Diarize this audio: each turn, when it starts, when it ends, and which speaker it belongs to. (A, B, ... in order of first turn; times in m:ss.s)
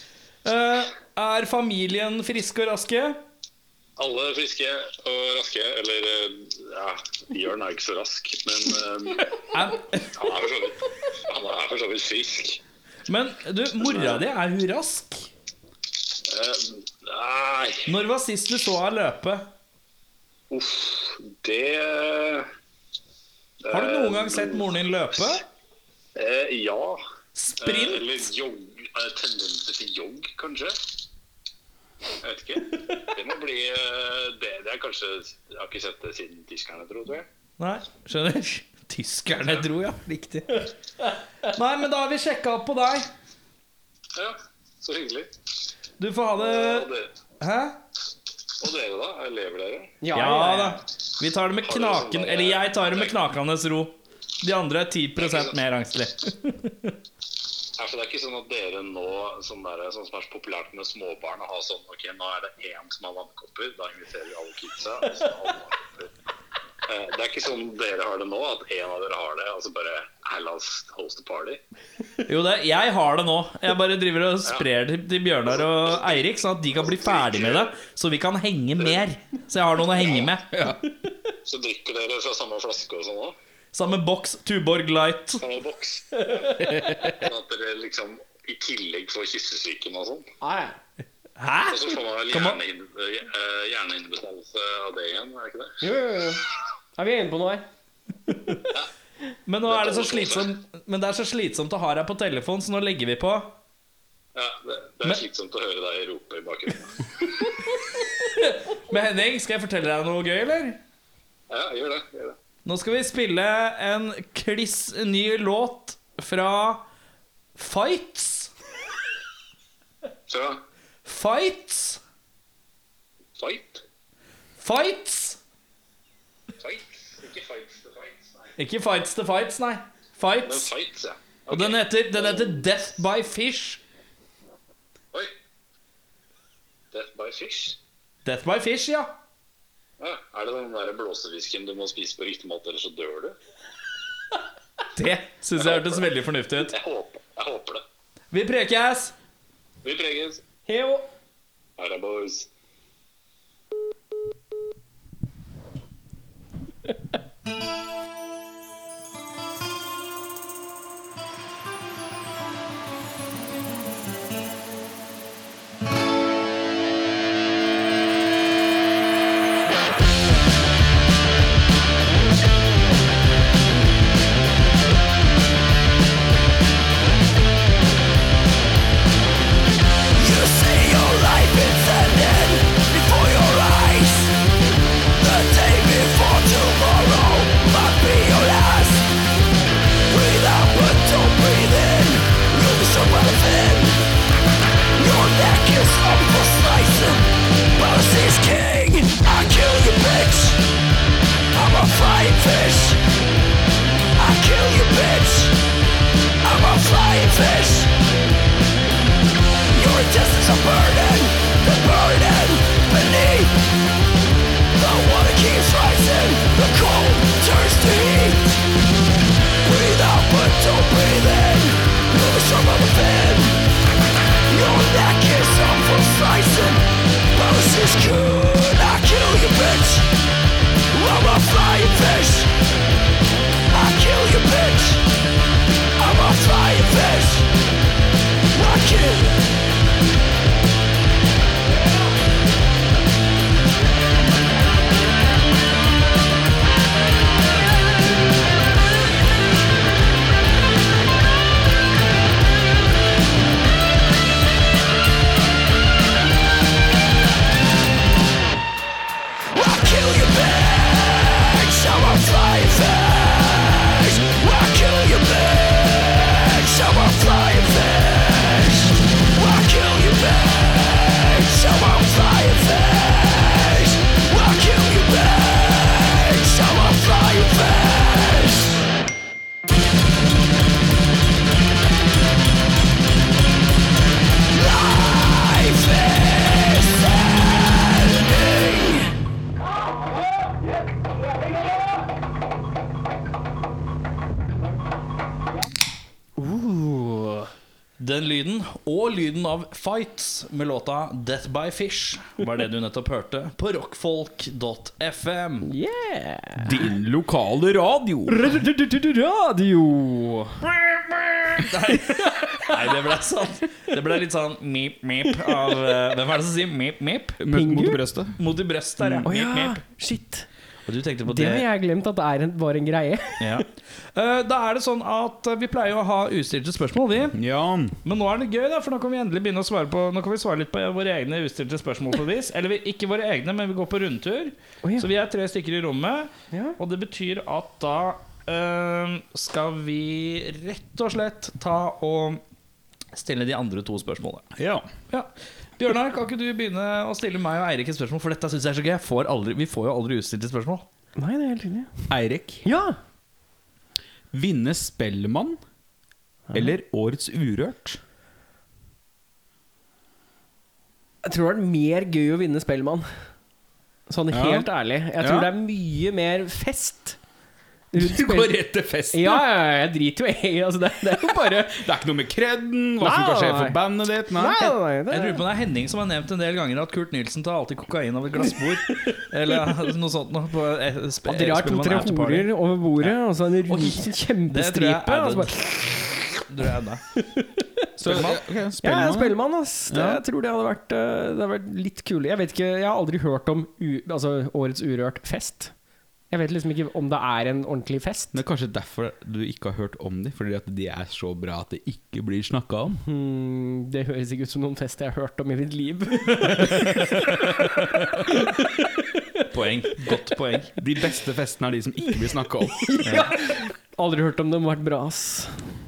0:00.4-0:03.2 A
0:04.0-0:09.4 B
0:09.5-0:10.1 A
0:10.1-0:12.6 B
0:13.1-0:15.3 A
0:13.8-0:14.2 B
0:16.1-0:17.9 B
0:17.9-0:19.5 A
0:20.5-0:22.5 B
0:23.6-0:24.8 B
0:23.7-0:25.4 A
0:26.1-0:27.0 B
0:27.3-0:28.3 A
0:27.6-0:31.0 B
0:32.2-0:37.3 B
0:37.6-0:40.7 A
0:41.4-0:43.1 A
0:44.1-0:45.3 B
0:46.0-0:47.8 A
0:46.4-0:47.1 B
0:48.6-0:49.9 B
0:50.0-0:50.8 C
0:50.1-0:57.0 A
0:51.6-0:53.2 B
0:55.2-0:55.5 B
0:57.8-1:06.1 B
1:06.8-1:11.6 B
1:12.2-1:20.7 A
1:15.5-1:16.2 B
1:16.7-1:17.8 B
1:19.9-1:20.3 B
1:21.4-1:23.4 B
1:23.7-1:25.4 A
1:25.4-1:30.2 B
1:30.4-1:30.8 C
1:31.4-1:32.6 A
1:31.6-1:35.8 B
1:35.8-1:36.4 C
1:37.0-1:37.6 C
1:39.5-1:43.6 A
1:39.7-1:40.5 B
1:44.3-1:47.4 B
1:48.2-1:50.8 A
1:51.5-1:52.4 B
1:52.6-1:56.8 A
1:57.6-1:58.5 A
2:00.3-2:00.6 B
2:01.0-2:02.0 A
2:03.4-2:03.8 B
2:04.6-2:05.4 A
2:06.6-2:08.5 B
2:08.6-2:10.7 A
2:10.4-2:12.8 B
2:11.5-2:13.8 A
2:16.9-2:17.8 B
2:18.2-2:19.1 A
2:20.0-2:23.4 B
2:25.0-2:26.8 A
2:25.6-2:26.1 B
2:26.7-2:27.8 B
2:28.3-2:29.1 A
2:29.8-2:30.4 B
2:30.7-2:31.1 C
2:31.8-2:32.5 B
3:00.2-3:04.3 D
3:05.2-3:09.1 D
3:10.1-3:14.0 D
3:15.0-3:20.6 D
3:21.5-3:23.0 D
3:24.2-3:25.6 D
3:26.4-3:27.9 D
3:29.7-3:33.6 D
3:34.8-3:38.6 D
3:39.6-3:43.6 D
3:44.5-3:50.1 D
3:50.9-3:52.5 D
3:53.7-3:55.0 D
3:56.0-3:57.5 D
3:58.5-3:59.4 D
4:19.5-4:38.8 D
4:44.5-4:48.6 D
4:56.4-4:57.5 C
4:58.0-5:05.7 A
5:05.7-5:06.7 C
5:06.6-5:08.4 E
5:08.3-5:10.7 C
5:11.5-5:17.4 A
5:12.2-5:12.7 C
5:15.5-5:15.7 C
5:17.4-5:18.4 E
5:17.5-5:18.0 C
5:18.4-5:19.8 A
5:19.0-5:19.3 E
5:19.2-5:20.5 C
5:20.9-5:21.6 A
5:21.2-5:23.4 C
5:23.4-5:27.4 A
5:27.3-5:28.0 E
5:28.0-5:42.4 A
5:36.5-5:36.8 C
5:43.1-5:44.5 A
5:44.6-5:44.9 E
5:45.1-5:50.8 A
5:51.2-5:52.1 C
5:52.1-5:52.6 E
5:52.6-5:53.0 C
5:54.3-5:55.6 E
5:56.5-5:58.0 E
6:01.2-6:03.0 C
6:04.1-6:07.2 C
6:04.3-6:04.7 E
6:05.2-6:05.5 E
6:07.9-6:08.6 C
6:08.0-6:09.4 E
6:09.1-6:11.8 C
6:11.4-6:14.8 E
6:13.0-6:15.4 C
6:15.1-6:22.5 A
6:21.2-6:26.0 C
6:23.6-6:26.0 A
6:26.5-6:27.0 A
6:27.2-6:27.8 C
6:28.0-6:30.2 E
6:28.0-6:28.4 A
6:28.8-6:35.7 C
6:36.3-6:38.4 C
6:38.3-6:43.0 E
6:43.0-6:47.7 C
6:46.6-6:46.8 A
6:48.3-6:48.5 C
6:49.5-6:50.7 A
6:50.8-6:53.1 E
6:52.8-6:55.6 C
6:53.0-6:53.3 A